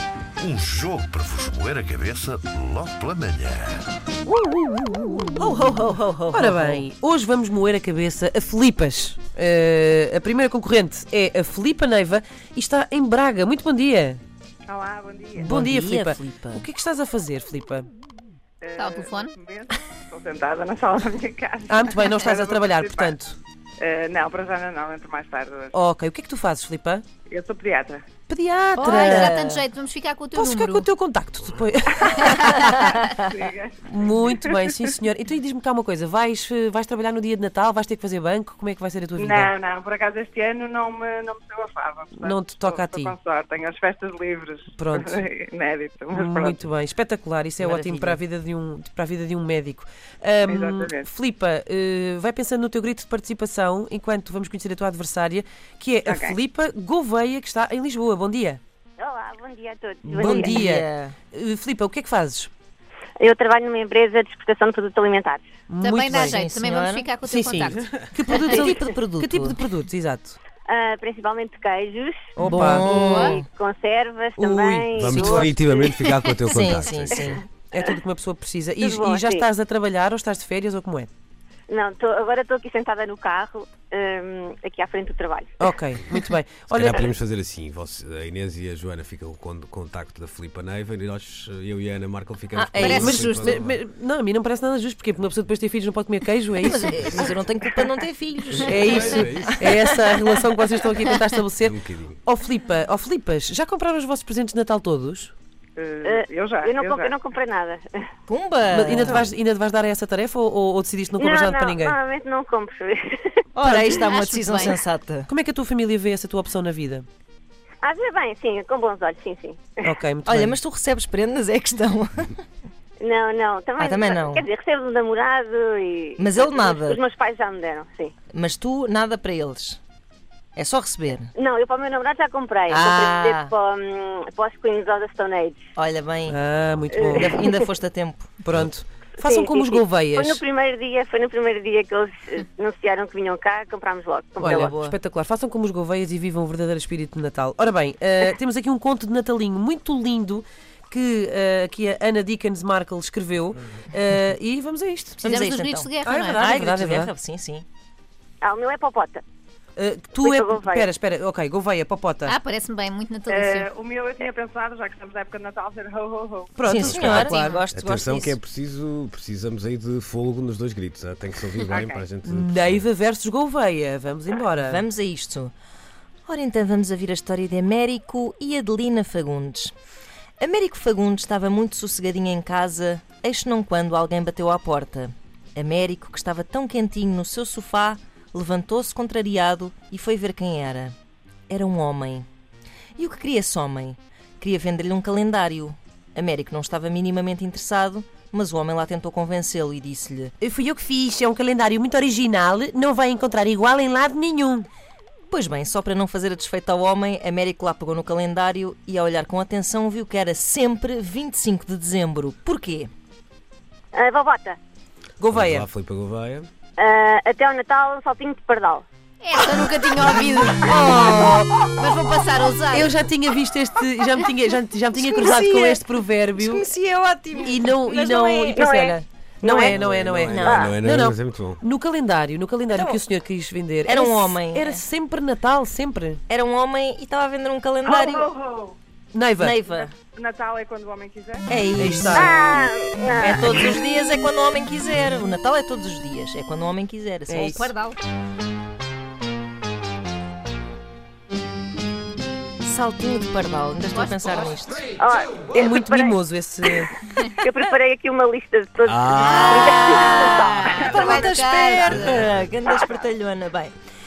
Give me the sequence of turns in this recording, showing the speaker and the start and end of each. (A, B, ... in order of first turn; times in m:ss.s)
0:00.4-0:03.9 A
0:04.3-0:05.6 B
0:05.4-0:06.8 C
0:06.3-0:14.2 B
0:14.7-0:15.5 D
0:15.4-0:16.7 C
0:15.4-0:17.9 B
0:18.6-0:23.2 D
0:18.8-0:19.3 E
0:21.7-0:23.4 B
0:23.8-0:25.7 D
0:25.7-0:27.0 B
0:27.3-0:28.0 D
0:28.3-0:29.4 B
0:28.8-0:30.9 E
0:28.8-0:29.7 C
0:30.4-0:32.6 B
0:32.2-0:32.9 E
0:32.6-0:33.7 D
0:32.7-0:33.1 C
0:33.8-0:39.5 B
0:34.2-0:34.6 D
0:39.2-0:46.6 D
0:42.2-0:43.2 B
0:44.8-0:45.2 B
0:46.1-0:58.6 B
0:47.6-0:48.2 C
0:50.5-0:51.1 D
0:56.0-0:56.4 D
0:59.0-1:00.5 F
1:00.0-1:02.5 B
1:00.2-1:01.2 C
1:03.2-1:05.5 F
1:05.7-1:06.4 B
1:05.8-1:07.8 E
1:06.3-1:07.1 C
1:07.2-1:10.4 B
1:08.3-1:09.6 C
1:10.7-1:12.4 F
1:12.4-1:12.8 B
1:12.4-1:13.5 C
1:12.6-1:13.4 E
1:13.4-1:16.0 F
1:14.4-1:15.5 B
1:14.9-1:17.3 G
1:16.0-1:17.0 E
1:16.5-1:17.4 C
1:17.3-1:17.8 F
1:17.7-1:21.1 B
1:18.8-1:19.5 F
1:21.7-1:25.5 F
1:25.6-1:27.1 B
1:26.7-1:33.7 G
1:32.5-1:33.2 C
1:32.8-1:33.6 E
1:32.9-1:37.3 B
1:36.6-1:40.4 C
1:38.6-1:39.6 G
1:38.6-1:45.3 B
1:41.6-1:42.2 G
1:45.8-1:47.1 D
1:46.0-1:48.1 F
1:48.3-1:49.3 C
1:48.7-1:52.0 B
1:51.2-1:53.4 F
1:53.6-1:55.3 C
1:54.0-1:54.8 E
1:55.3-1:57.1 B
1:57.8-1:59.8 F
1:59.8-2:00.6 B
2:00.3-2:02.4 C
2:03.0-2:08.2 F
2:03.8-2:04.4 C
2:06.2-2:07.0 C
2:08.3-2:09.8 C
2:10.6-2:11.3 C
2:11.4-2:15.7 F
2:12.7-2:13.5 C
2:15.8-2:16.4 C
2:16.3-2:17.3 B
2:16.9-2:17.7 F
2:17.1-2:18.3 C
2:18.4-2:20.4 B
2:19.2-2:24.7 F
2:24.4-2:25.0 C
2:24.4-2:35.4 B
2:35.2-2:37.7 C
2:35.2-2:36.5 E
2:36.0-2:37.1 B
2:38.4-2:39.2 F
2:39.8-2:42.4 B
2:40.2-2:40.9 F
2:42.3-2:43.7 E
2:43.3-2:46.7 D
2:46.6-2:47.6 B
2:46.7-2:48.4 C
2:46.8-2:52.9 G
2:47.1-2:47.6 E
2:51.6-2:52.0 D
2:52.2-2:54.8 B
2:54.6-2:55.5 C
2:56.3-2:59.7 C
3:00.4-3:11.0 C
3:11.5-3:12.3 C
3:13.0-3:20.3 C
3:20.4-3:24.7 B
3:25.3-3:32.9 C
3:33.9-3:34.6 F
3:35.2-3:35.7 B
3:35.3-3:36.5 G
3:36.8-3:38.9 F
3:39.2-3:40.7 E
3:40.6-3:41.6 C
3:41.6-3:43.0 E
3:42.7-3:46.7 B
3:44.9-3:45.9 C
3:46.4-3:48.6 C
3:47.4-3:49.0 B
3:48.5-3:49.8 F
3:49.5-3:50.7 C
3:49.6-3:56.2 B
3:49.8-3:51.6 G
3:50.4-3:50.8 F
3:52.7-3:53.0 C
3:53.9-3:54.9 C
3:56.3-3:58.3 C
3:57.8-3:58.8 D
3:59.1-3:59.6 B
3:59.4-3:59.9 C
3:59.7-4:01.5 D
4:01.5-4:02.3 C
4:01.8-4:02.3 B
4:02.1-4:03.6 F
4:03.2-4:07.8 C
4:07.3-4:07.7 B
4:07.5-4:08.0 E
4:12.6-4:14.8 C
4:13.9-4:14.6 E
4:15.0-4:16.7 F
4:15.5-4:16.9 B
4:17.4-4:21.1 F
4:18.8-4:19.5 G
4:19.2-4:22.2 E
4:19.2-4:23.7 C
4:21.9-4:22.5 G